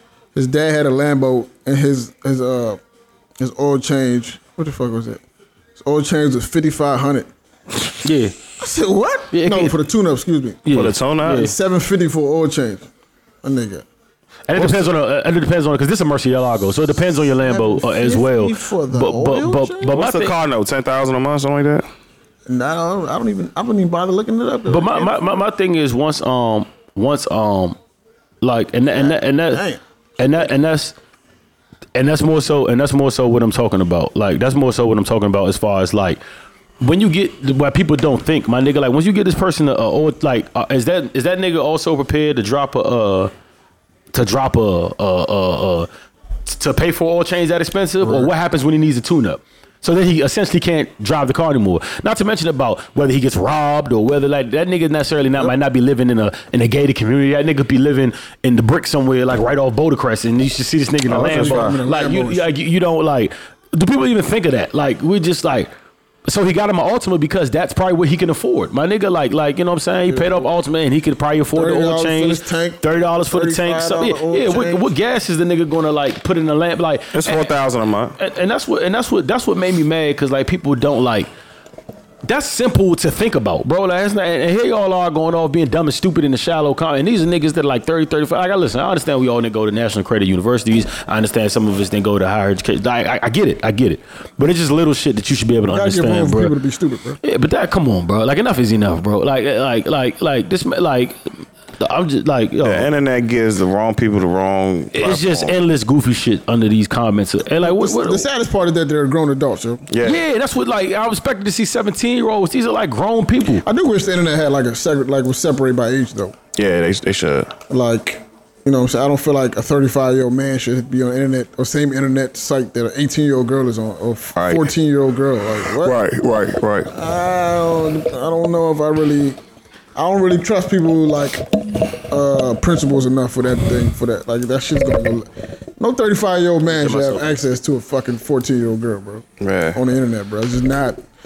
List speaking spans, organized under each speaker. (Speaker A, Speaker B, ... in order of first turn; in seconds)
Speaker A: 0.3-2.8, 3.4-5.2, 5.8-7.3, 8.6-10.6, 11.2-12.9, 13.4-13.8, 17.4-19.9, 22.5-25.4, 29.0-30.5, 48.0-48.3, 61.1-62.5, 70.1-70.5, 71.5-74.9, 95.7-97.2, 107.5-109.8, 113.6-116.3, 117.7-126.0, 126.9-129.4, 129.9-141.0
Speaker B: 8.0-8.3, 9.3-9.7, 10.6-11.5, 14.5-20.3, 24.7-27.8, 28.4-29.6, 30.2-30.9, 31.9-36.2, 36.8-43.3, 44.1-45.9, 46.5-65.7, 66.3-77.6, 78.2-81.3, 82.2-96.5, 97.2-102.9, 104.9-108.2, 110.0-113.6, 136.7-137.4
Speaker C: 10.7-11.5, 14.5-14.8, 19.9-21.9, 61.1-61.8, 77.1-78.2, 102.6-105.5, 109.9-110.2, 116.5-117.6, 124.3-124.7, 125.7-126.9, 139.4-139.8